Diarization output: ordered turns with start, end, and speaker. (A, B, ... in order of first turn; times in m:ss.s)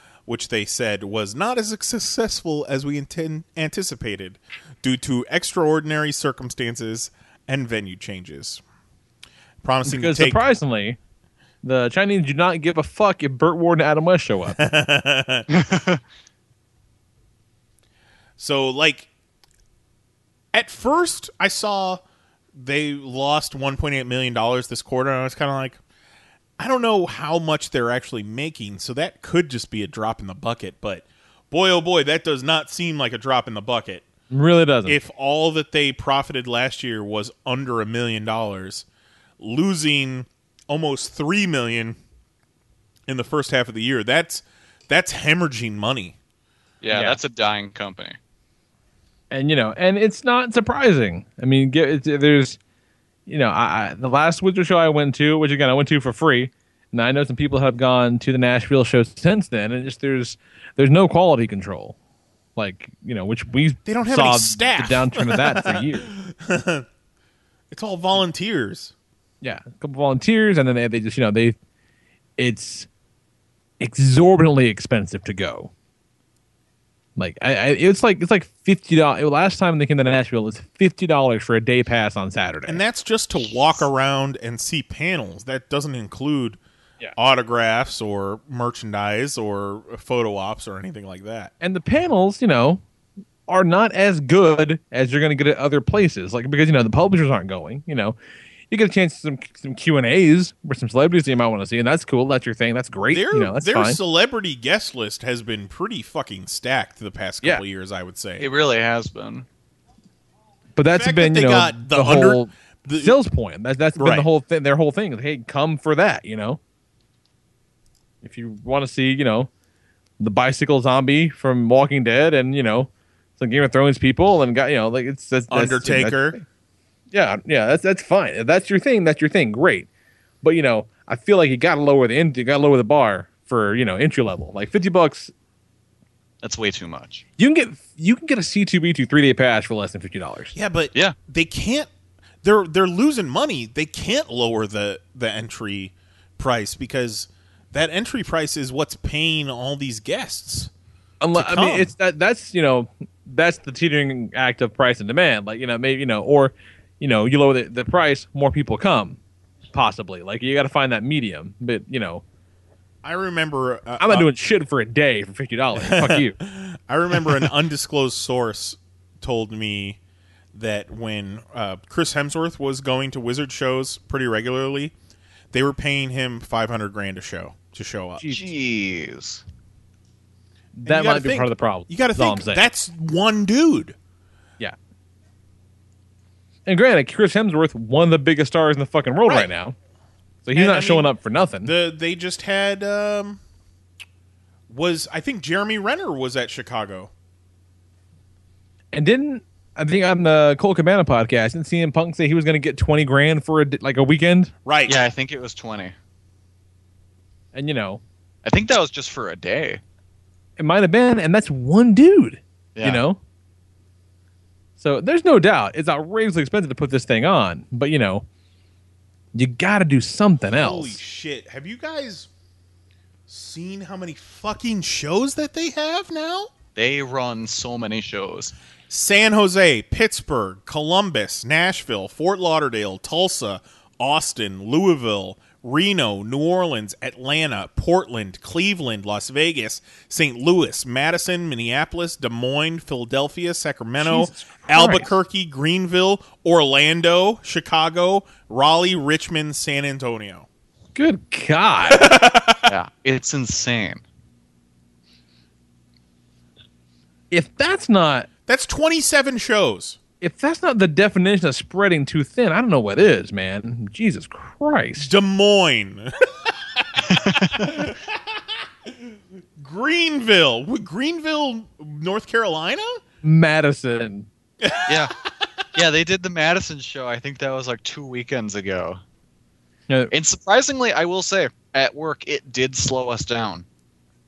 0:00.3-0:08.6 A
0:09.6-0:10.4 A
0:09.8-0:11.0 B
0:11.6-0:14.6 B
0:14.6-0:15.5 A
0:15.5-0:16.0 C
0:18.4-0:19.1 A
0:20.5-0:22.0 A
0:22.6-0:25.8 A
0:26.6-0:34.1 A
0:34.3-0:35.0 B
0:34.9-0:38.9 A
0:39.4-0:42.0 A
0:43.1-0:46.2 A
0:46.8-0:48.2 C
0:46.9-0:47.2 B
0:49.3-0:52.6 B
0:53.3-1:02.0 B
1:02.6-1:06.1 B
1:03.9-1:06.9 A
1:07.7-1:08.9 A
1:09.4-1:11.6 B
1:12.4-1:12.9 B
1:13.8-1:15.7 B
1:17.2-1:22.8 B
1:22.7-1:26.6 A
1:27.2-1:31.5 A
1:31.6-1:32.8 B
1:33.5-1:38.2 B
1:38.7-1:44.0 B
1:43.1-1:48.5 A
1:48.4-1:49.5 C
1:50.8-1:56.6 B
1:50.9-1:53.2 A
1:54.0-1:54.3 A
1:58.2-1:59.5 B
2:00.2-2:06.4 B
2:05.5-2:06.4 A
2:07.1-2:09.9 B
2:10.4-2:15.3 B
2:16.4-2:17.2 C
2:17.4-2:20.5 B
2:20.5-2:21.9 A
2:22.4-2:30.7 A
2:31.2-2:39.2 B
2:31.3-2:31.9 A
2:39.7-2:42.2 B
2:43.0-2:44.3 A
2:44.0-2:46.4 B
2:45.8-2:50.0 A
2:50.5-2:54.9 A
2:55.5-2:58.2 A
2:58.3-2:59.4 C
3:00.8-3:02.6 B
3:00.9-3:04.0 A
3:06.7-3:09.8 B
3:09.3-3:09.5 A
3:10.4-3:11.7 B
3:10.5-3:11.1 A
3:11.6-3:13.4 A
3:14.7-3:17.1 A
3:18.9-3:24.5 B
3:24.6-3:25.1 A
3:24.9-3:25.9 C
3:27.5-3:28.0 B
3:28.4-3:29.8 C
3:30.6-3:33.2 B
3:32.8-3:33.0 C
3:34.8-3:38.3 B
3:39.3-3:41.0 B
3:40.5-3:42.3 A
3:43.3-3:46.5 A
3:46.8-3:48.5 C
3:48.9-4:10.5 A
4:04.0-4:05.1 B
4:11.0-4:12.1 B
4:11.9-4:12.7 A
4:12.7-4:14.0 C
4:17.3-4:18.3 B
4:18.5-4:20.0 A
4:20.2-4:25.1 B
4:25.0-4:26.1 A
4:27.1-4:27.6 C
4:27.5-4:28.1 A
4:29.1-4:33.0 A
4:33.2-4:34.3 B
4:34.6-4:35.1 A
4:34.9-4:35.1 C
4:35.7-4:39.0 C
4:40.1-4:43.6 C